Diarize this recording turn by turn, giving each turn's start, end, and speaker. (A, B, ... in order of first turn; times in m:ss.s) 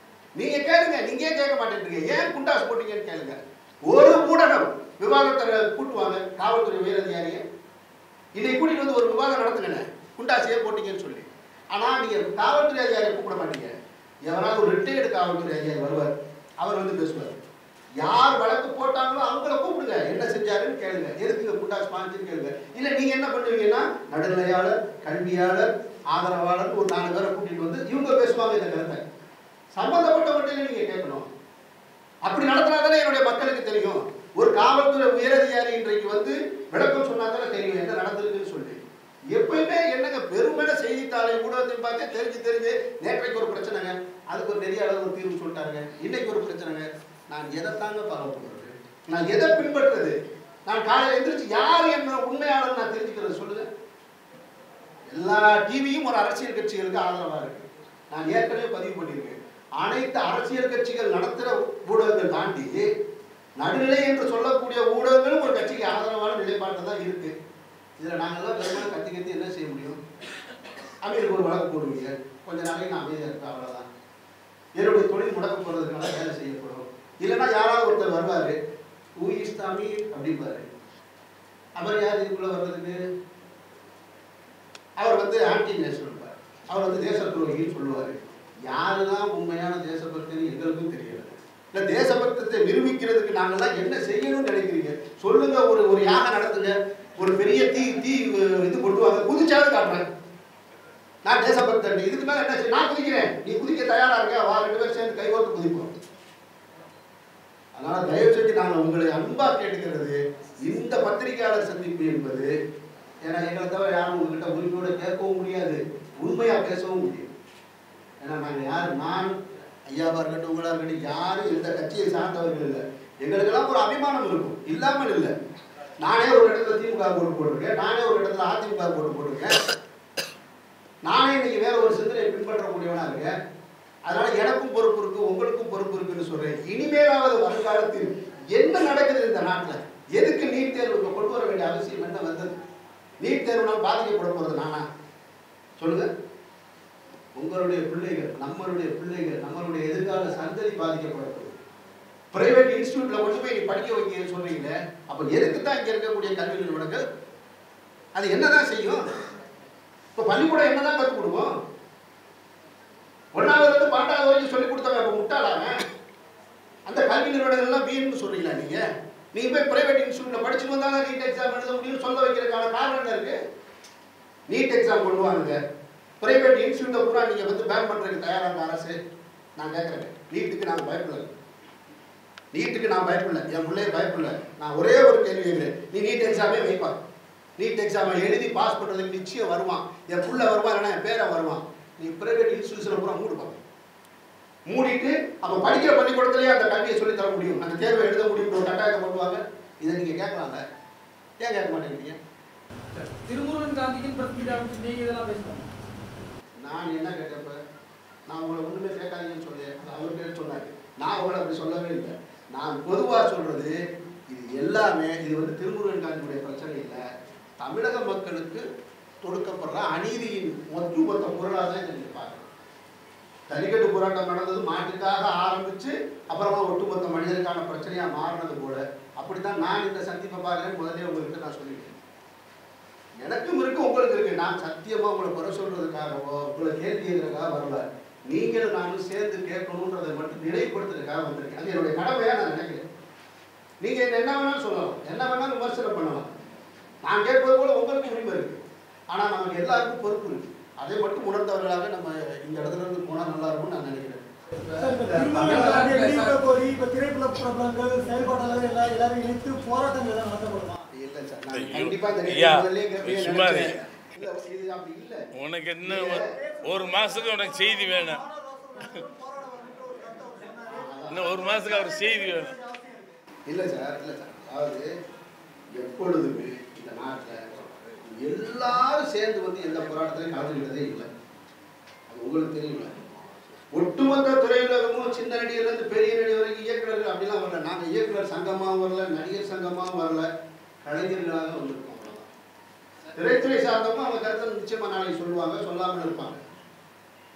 0:00.4-0:03.4 A
0:03.9-0:07.4 A
0:08.4-0:13.7 A
0:14.3-0:16.1 A
0:16.6-0:17.4 A
0:18.0-0:29.0 A
0:29.8-0:31.3 A
0:32.2-0:38.8 A
0:39.3-0:50.1 A
0:50.6-0:53.7 A
0:55.1-1:02.8 A
1:03.6-1:07.3 A
1:08.0-1:10.0 A
1:11.0-1:13.9 A
1:14.8-1:18.6 A
1:19.2-1:20.6 A
1:21.8-1:23.0 A
1:25.0-1:40.0 A
1:41.2-1:45.9 A
1:47.8-1:52.5 A
1:53.2-1:57.3 A
1:58.2-1:59.3 A
1:59.9-2:05.3 A
2:06.0-2:09.5 A
2:11.0-2:13.3 A
2:14.1-2:22.6 A
2:23.2-2:24.8 A
2:25.8-2:26.1 A
2:27.4-2:31.5 A
2:32.3-2:37.0 A
2:38.1-2:39.0 A
2:40.1-2:41.5 A
2:43.3-2:45.7 A
2:46.9-2:48.8 A
2:49.3-2:53.4 A
2:54.5-2:55.6 A
2:56.2-2:59.0 A
2:59.6-3:01.3 A
3:02.5-3:07.0 A
3:07.6-3:13.6 A
3:14.7-3:20.6 A
3:21.4-3:22.2 A
3:22.9-3:25.7 B
3:26.6-3:27.6 A
3:28.3-3:33.8 A
3:34.3-3:37.0 A
3:37.6-3:38.6 A
3:39.2-3:42.5 A
3:43.5-3:51.9 A
3:53.2-4:02.8 A
4:03.8-4:06.3 A
4:07.0-4:08.6 A
4:09.1-4:16.0 A
4:14.8-4:20.9 C
4:15.2-4:16.5 B
4:20.9-4:25.3 A
4:21.5-4:23.8 D
4:25.3-4:28.2 D
4:25.8-4:26.3 A
4:27.9-4:30.9 C
4:30.6-4:31.7 A
4:31.1-4:32.6 D
4:32.0-4:33.1 C
4:33.5-4:34.9 A
4:35.7-4:41.1 A
4:42.1-4:42.9 A
4:43.7-4:50.3 A
4:50.8-4:52.3 A
4:53.1-4:56.4 A